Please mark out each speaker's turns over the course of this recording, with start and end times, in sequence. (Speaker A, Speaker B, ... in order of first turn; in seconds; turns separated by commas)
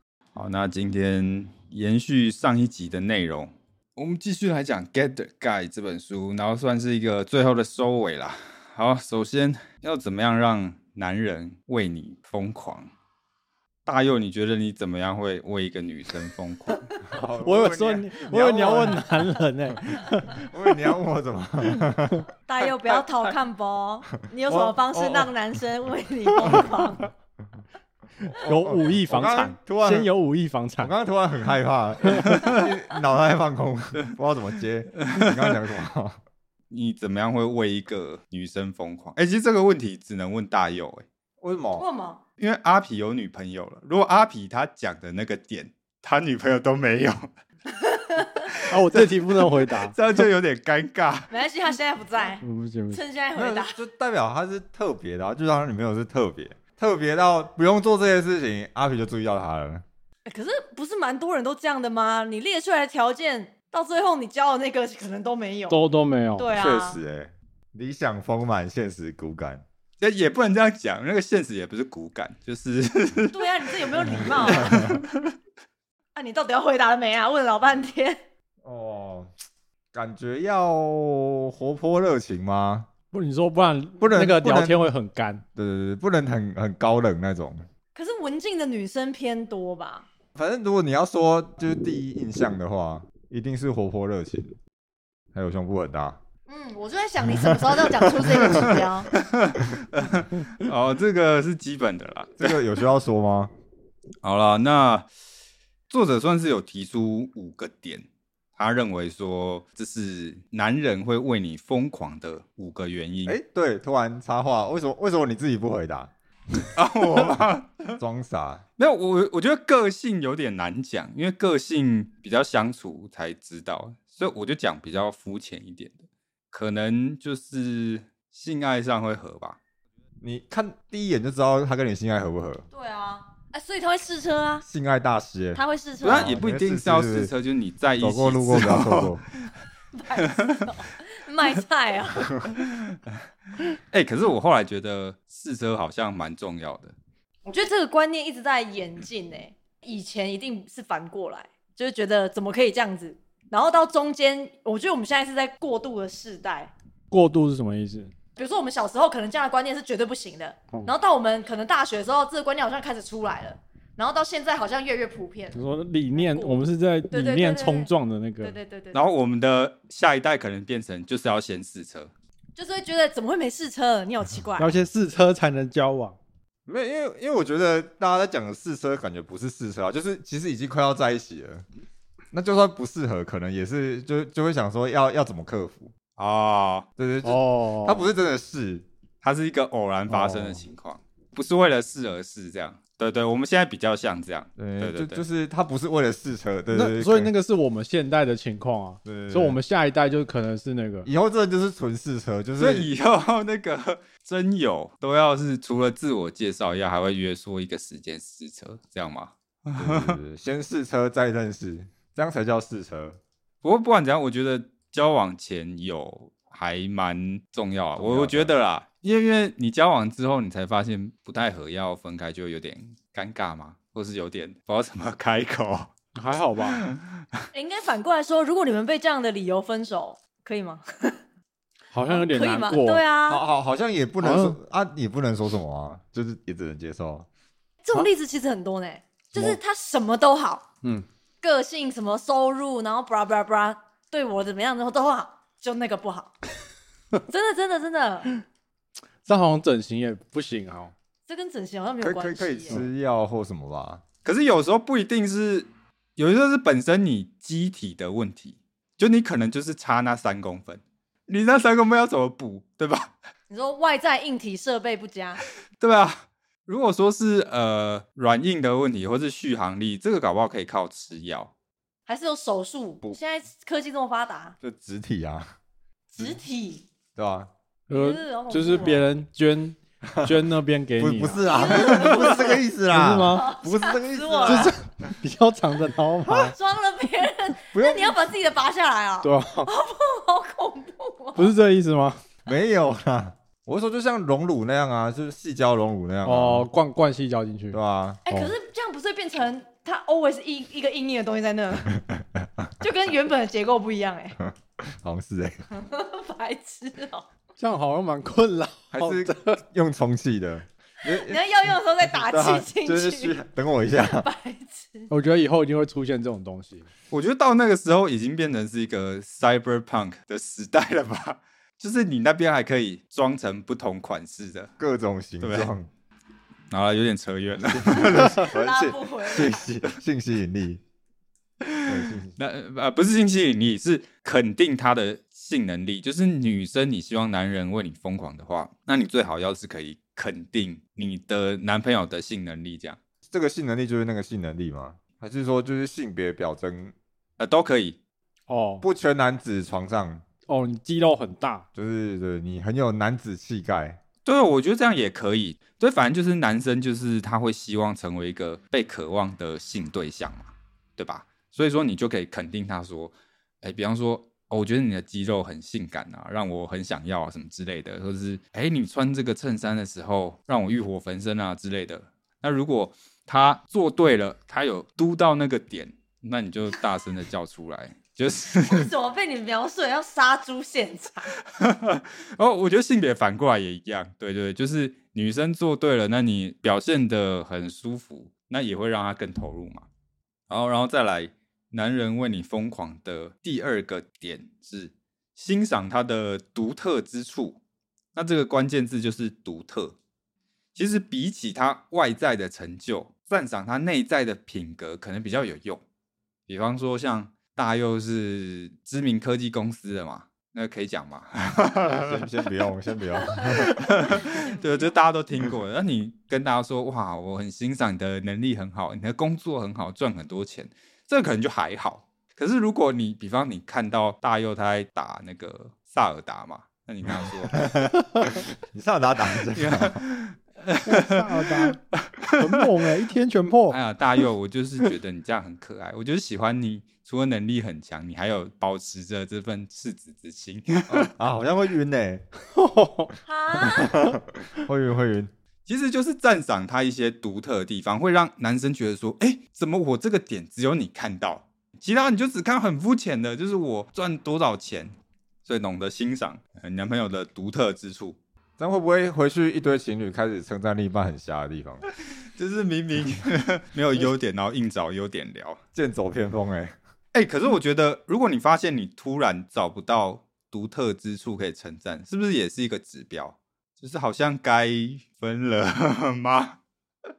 Speaker A: 0.4-12.9, Speaker A: 13.9-16.9, Speaker B: 17.1-19.1, Speaker C: 17.4-20.5, Speaker B: 20.3-22.3, Speaker D: 22.5-27.1, Speaker B: 24.5-25.3, Speaker B: 26.4-26.8, Speaker B: 28.2-30.1, Speaker C: 28.4-30.9, Speaker B: 30.8-36.2, Speaker A: 32.3-32.6, Speaker A: 35.0-35.5, Speaker A: 36.7-41.0, Speaker B: 41.4-41.9, Speaker D: 41.8-42.2, Speaker A: 42.4-47.3, Speaker D: 47.9-48.5, Speaker C: 48.6-50.0, Speaker A: 48.9-51.3, Speaker D: 51.3-53.8, Speaker C: 52.4-53.0, Speaker B: 53.4-59.9, Speaker D: 60.3-65.8, Speaker C: 65.7-66.5, Speaker D: 66.4-67.0, Speaker B: 66.6-69.6, Speaker A: 70.0-75.3, Speaker D: 73.3-74.9, Speaker D: 76.2-78.2, Speaker B: 78.6-79.3, Speaker B: 79.9-82.9, Speaker C: 83.1-85.4, Speaker B: 84.0-84.8, Speaker B: 85.5-87.6, Speaker D: 88.0-90.1, Speaker B: 90.3-94.6, Speaker B: 95.3-96.2, Speaker D: 96.5-99.1, Speaker B: 97.5-98.8, Speaker A: 99.1-102.6, Speaker B: 102.4-103.5, Speaker A: 104.2-105.1, Speaker A: 105.9-113.4, Speaker B: 113.3-116.1, Speaker A: 116.7-118.0, Speaker B: 117.1-117.4, Speaker B: 118.0-118.7, Speaker A: 118.8-129.6, Speaker B: 130.2-132.7, Speaker D: 132.7-134.7, Speaker B: 134.6-137.3, Speaker D: 135.6-136.4, Speaker A: 136.0-139.5, Speaker B: 138.0-139.2, Speaker D: 139.9-142.5, Speaker A: 142.6-143.0, Speaker A: 143.7-146.9, Speaker D: 147.5-156.7, Speaker C: 157.1-158.1, Speaker D: 158.4-169.0, Speaker C: 165.5-168.6, Speaker A: 168.9-172.1, Speaker D: 172.6-174.8, Speaker C: 174.6-176.2, Speaker B: 176.7-181.6, Speaker B: 182.3-185.9, Speaker A: 186.2-186.9, Speaker B: 187.0-188.9, Speaker C: 187.2-188.1, Speaker A: 189.2-195.2, Speaker B: 190.1-190.6, Speaker B: 194.6-197.3, Speaker C: 196.7-201.1, Speaker B: 199.0-199.6, Speaker B: 201.1-202.9, Speaker A: 202.6-210.2, Speaker B: 209.8-213.2, Speaker A: 213.6-225.9, Speaker B: 218.0-218.5, Speaker C: 226.2-226.8, Speaker A: 226.6-227.2, Speaker D: 227.5-231.2, Speaker C: 231.9-233.0, Speaker D: 232.1-233.4, Speaker B: 233.3-237.3, Speaker C: 234.2-234.6, Speaker D: 237.8-240.7, Speaker D: 241.4-246.3, Speaker D: 247.3-248.3, Speaker C: 249.2-250.9, Speaker D: 251.3-252.8, Speaker B: 252.0-254.0, Speaker A: 254.2-263.1, Speaker D: 263.5-265.4, Speaker A: 265.8-271.5, Speaker D: 272.1-274.6, Speaker B: 274.6-275.5, Speaker D: 276.1-276.9, Speaker B: 277.2-277.5, Speaker C: 277.9-283.5, Speaker D: 277.9-279.1, Speaker B: 280.1-280.5, Speaker B: 281.0-284.8, Speaker D: 281.4-282.6, Speaker D: 283.3-284.7, Speaker C: 284.4-286.6, Speaker D: 286.3-291.6, Speaker B: 287.7-288.1, Speaker C: 289.2-289.7, Speaker C: 291.4-292.2, Speaker B: 292.5-296.7, Speaker C: 296.2-298.5, Speaker B: 297.7-298.2, Speaker D: 298.3-302.0, Speaker B: 302.1-302.4, Speaker D: 302.8-304.4, Speaker B: 304.4-305.6, Speaker D: 305.7-307.3, Speaker C: 307.6-309.6, Speaker B: 308.9-314.3, Speaker D: 311.0-313.4, Speaker D: 314.1-315.1, Speaker C: 315.1-316.9, Speaker A: 317.1-324.7, Speaker B: 324.8-325.9, Speaker A: 325.4-325.7, Speaker A: 326.7-328.4, Speaker B: 327.7-330.8, Speaker D: 328.1-329.7, Speaker A: 331.6-343.0, Speaker B: 331.9-332.4, Speaker B: 343.3-346.9, Speaker A: 347.4-348.0, Speaker C: 348.5-348.9, Speaker B: 348.8-350.2, Speaker C: 350.5-351.7, Speaker B: 351.8-354.0, Speaker A: 354.2-378.9, Speaker D: 378.6-381.3, Speaker A: 381.5-389.9, Speaker A: 390.5-397.6, Speaker A: 398.1-400.0, Speaker A: 400.8-405.8, Speaker A: 406.5-412.2, Speaker B: 411.9-414.2, Speaker A: 413.3-427.9, Speaker D: 414.2-414.9, Speaker B: 427.2-430.0, Speaker A: 429.5-432.5, Speaker C: 430.9-431.8, Speaker C: 432.3-433.8, Speaker A: 433.7-441.1, Speaker B: 440.9-442.2, Speaker C: 442.6-443.1, Speaker D: 443.2-444.1, Speaker B: 443.6-445.3, Speaker A: 445.7-454.9, Speaker A: 455.4-458.2, Speaker B: 458.6-461.9, Speaker A: 462.4-465.6, Speaker B: 465.7-466.8, Speaker A: 467.1-476.6